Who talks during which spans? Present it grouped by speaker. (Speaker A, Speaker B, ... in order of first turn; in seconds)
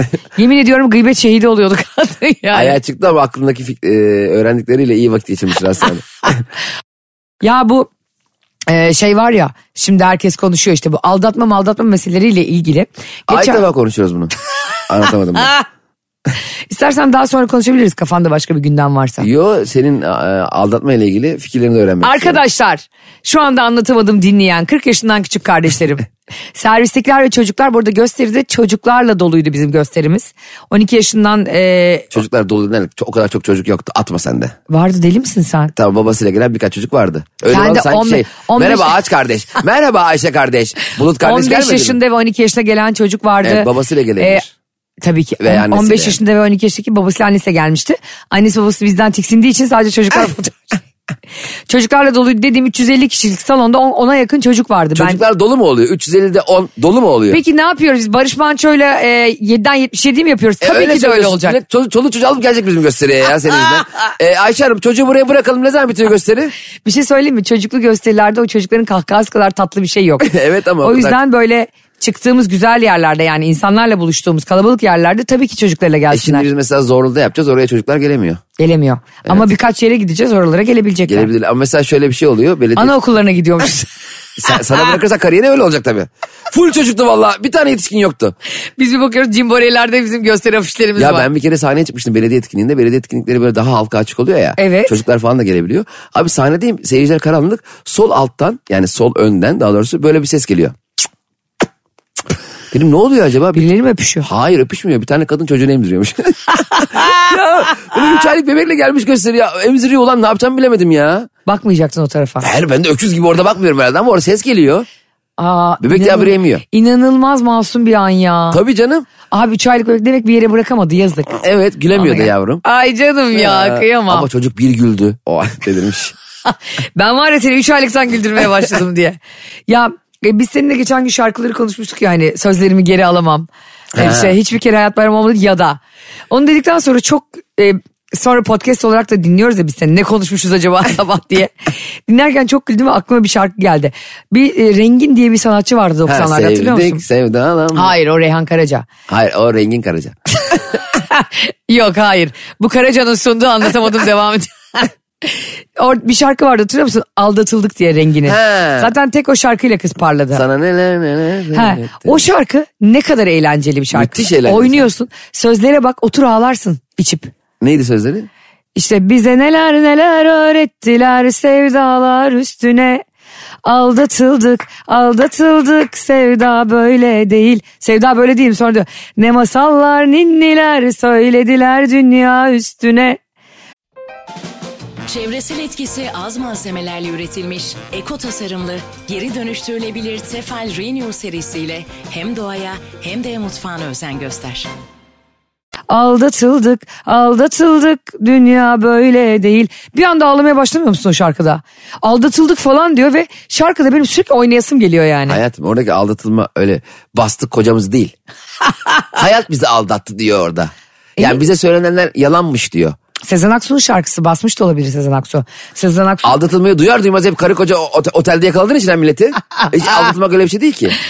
Speaker A: 0.4-2.8, 7.4-7.9, 8.7-13.6, 16.7-19.3, 22.0-32.1, 34.7-35.7, 37.5-39.0, 41.2-44.5, 45.0-50.8, 51.7-55.2, 57.3-61.6, 66.8-76.5, 78.6-81.3, 82.8-83.9, 88.8-91.3, 94.6-95.0, 103.5-104.3, 111.5-112.5, 115.4-118.6, 119.3-121.3, 122.0-124.3, 126.5-141.6, 142.1-147.0, 147.7-148.9, 150.9-160.4, 161.5-167.3, 168.8-173.0, 173.6-183.2, 195.9-205.4, 213.3-216.4
Speaker B: 2.5-6.4, 13.3-14.3, 14.9-15.5, 19.2-22.4, 32.1-34.5, 35.7-42.0, 43.4-44.5, 45.4-46.2, 55.0-57.4, 60.6-66.5, 70.2-71.2, 76.1-78.4, 81.1-83.0, 84.4-88.3, 91.0-100.8, 102.7-103.7, 104.2-111.3, 112.4-114.9, 115.8-116.6, 118.5-119.1, 121.3-122.6, 123.3-126.1, 134.0-134.4, 146.1-147.9, 149.1-150.2, 158.2-158.9, 160.3-162.3, 163.9-164.9, 167.6-168.3, 205.3-208.1, 209.1-213.0, 216.2-221.0
Speaker C: 185.1-194.7